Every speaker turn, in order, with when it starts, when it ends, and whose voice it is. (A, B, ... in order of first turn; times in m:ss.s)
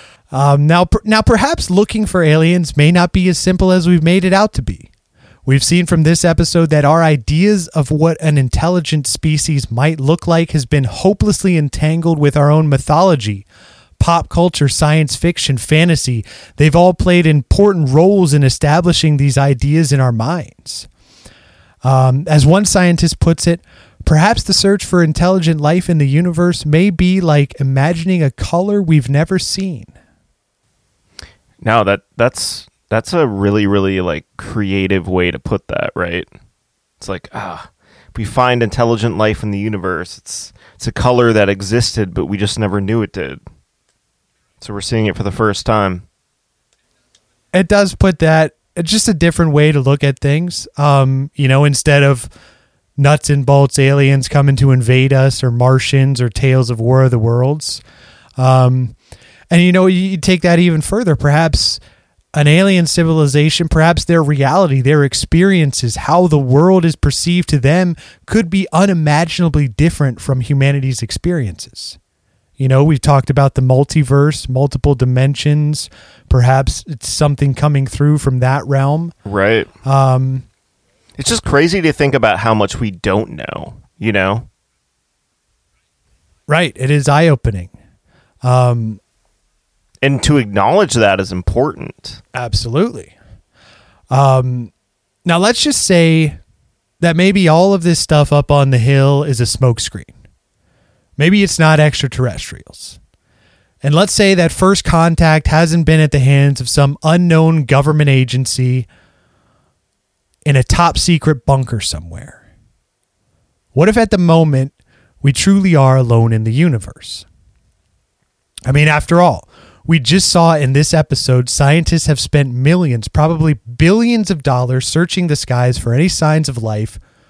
0:00.3-0:04.9 A
0:05.4-0:13.4 A
0:14.0-0:20.9 A
0:21.8-0:29.9 A
0:31.6-0:36.3 B
0:37.0-0:43.4 B
0:44.6-0:46.0 B
0:47.5-0:52.3 A
0:53.0-0:57.8 A
0:58.4-0:58.9 A
0:59.5-1:01.8 A
1:02.3-1:12.0 A
1:12.6-1:19.1 A
1:19.2-1:19.7 B
1:19.8-1:20.4 A
1:21.2-1:24.5 B
1:26.5-1:27.7 A
1:28.4-1:29.0 A
1:30.0-1:32.2 B
1:32.3-1:33.1 A
1:34.1-1:34.7 A
1:35.2-1:36.4 A
1:37.0-1:40.1 A
1:41.2-1:43.0 A
1:43.8-1:48.9 A
1:50.4-1:52.4 A
1:53.7-1:57.2 A
1:58.6-2:07.0 A